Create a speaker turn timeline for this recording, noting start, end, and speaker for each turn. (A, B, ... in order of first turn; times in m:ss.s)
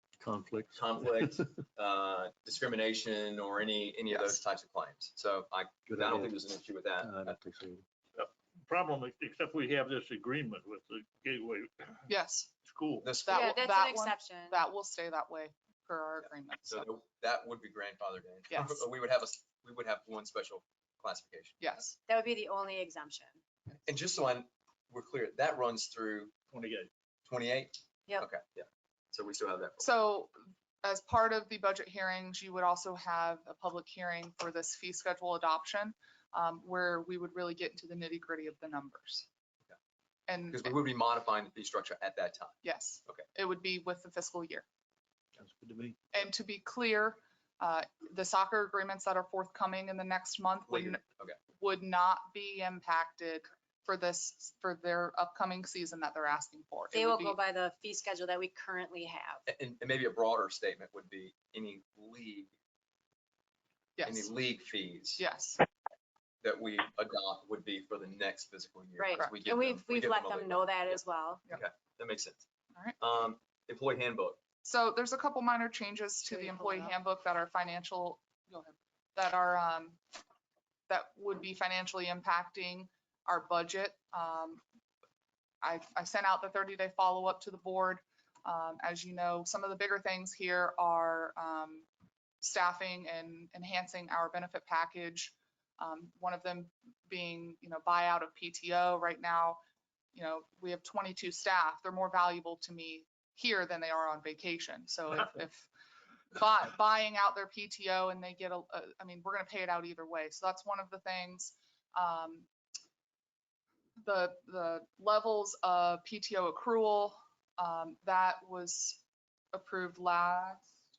0:00.2-0:01.5 A
0:00.7-0:07.4 B
0:05.9-0:06.3 A
0:07.0-0:07.8 A
0:08.2-0:12.1 C
0:12.1-0:12.5 D
0:12.6-0:13.2 C
0:13.0-0:13.5 B
0:13.2-0:16.8 D
0:13.3-0:14.6 E
0:16.7-0:21.6 B
0:18.5-0:18.8 D
0:21.6-0:22.0 D
0:22.1-0:23.4 E
0:23.8-0:26.3 B
0:26.5-0:26.9 C
0:27.3-0:29.8 B
0:29.8-0:30.3 D
0:30.8-0:39.3 D
0:40.3-0:40.8 D
0:40.5-0:43.2 B
0:42.6-0:44.6 D
0:45.4-0:46.0 A
0:46.1-0:51.0 D
0:50.7-0:51.4 B
0:51.5-0:57.4 D
0:56.9-0:59.4 E
0:59.5-1:02.5 B
1:04.0-1:04.3 D
1:04.0-1:05.2 B
1:05.2-1:05.6 D
1:06.4-1:11.0 B
1:09.0-1:11.4 E
1:11.5-1:12.4 B
1:13.0-1:14.4 B
1:14.6-1:20.0 D
1:16.2-1:16.9 E
1:20.9-1:24.6 D
1:25.6-1:31.8 D
1:32.4-1:39.6 D
1:40.1-1:45.7 D
1:46.3-1:52.5 D
1:54.0-1:59.0 D
1:59.5-2:00.7 D